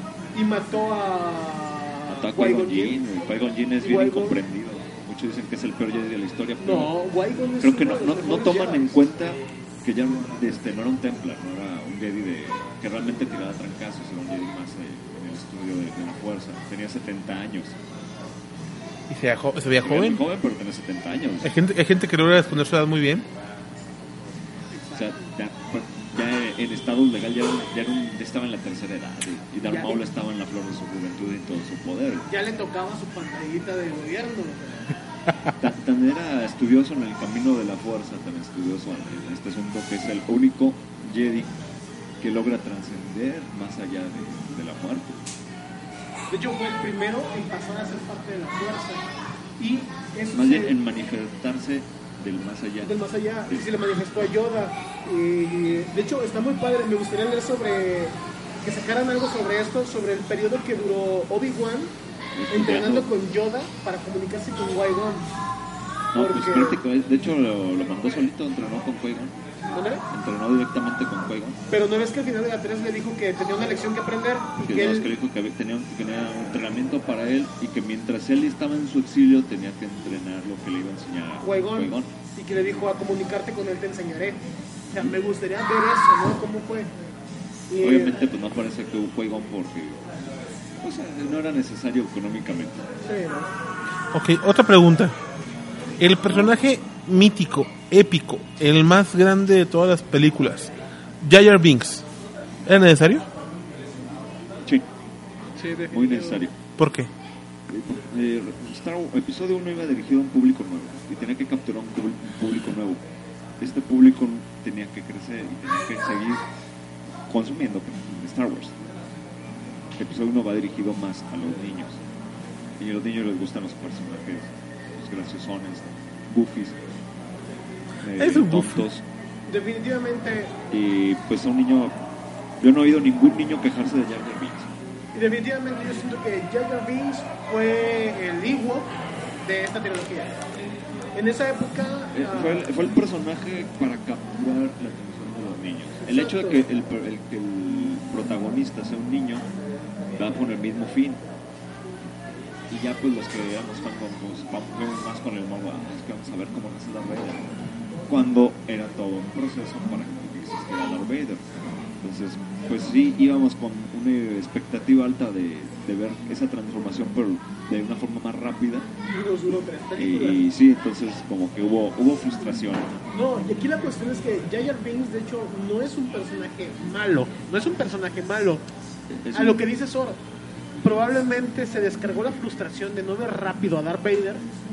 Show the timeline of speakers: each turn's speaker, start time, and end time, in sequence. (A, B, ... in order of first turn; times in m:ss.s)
0:00.3-0:03.0 A
0:02.1-0:07.0 B
0:03.8-0:04.4 A
0:06.6-0:09.0 A
0:07.6-0:17.8 B
0:19.1-0:20.2 C
0:19.8-0:21.5 B
0:21.4-0:23.3 C
0:24.7-0:25.2 A
0:24.9-0:32.3 B
0:29.6-0:30.0 A
0:32.3-0:34.9 A
0:35.6-0:41.5 B
0:42.2-0:45.2 B
0:46.3-0:49.1 A
0:49.6-0:50.8 A
0:50.3-0:53.7 B
0:52.8-1:01.9 A
1:02.4-1:03.1 B
1:02.5-1:05.3 A
1:06.1-1:09.4 B
1:06.2-1:06.8 A
1:09.7-1:10.0 A
1:10.1-1:11.6 B
1:11.7-1:15.1 A
1:14.6-1:22.1 B
1:21.4-1:26.9 A
1:27.7-1:28.2 A
1:27.8-1:30.1 B
1:30.8-1:32.8 B
1:33.1-1:33.5 A
1:34.1-1:35.2 C
1:36.0-1:42.0 C
1:42.7-1:43.2 C
1:45.6-1:46.4 A
1:45.9-1:46.5 B
1:46.8-1:47.1 C
1:47.7-1:53.0 B
1:53.6-1:56.4 B
1:57.3-1:58.8 B
2:00.0-2:02.0 B
2:02.8-2:06.8 B
2:08.0-2:09.0 B
2:08.2-2:08.8 C
2:09.5-2:10.6 A
2:10.7-2:11.9 B
2:12.6-2:14.7 B
2:15.1-2:20.4 A
2:21.2-2:22.7 A
2:22.1-2:29.5 B
2:26.0-2:26.6 A
2:30.2-2:31.2 B
2:32.7-2:37.5 B
2:38.1-2:41.5 B
2:42.0-2:48.9 B
2:49.1-2:50.4 A
2:50.0-2:53.0 B
2:53.1-2:58.6 A
2:59.1-2:59.6 B
2:59.3-3:00.2 A
3:00.8-3:04.4 A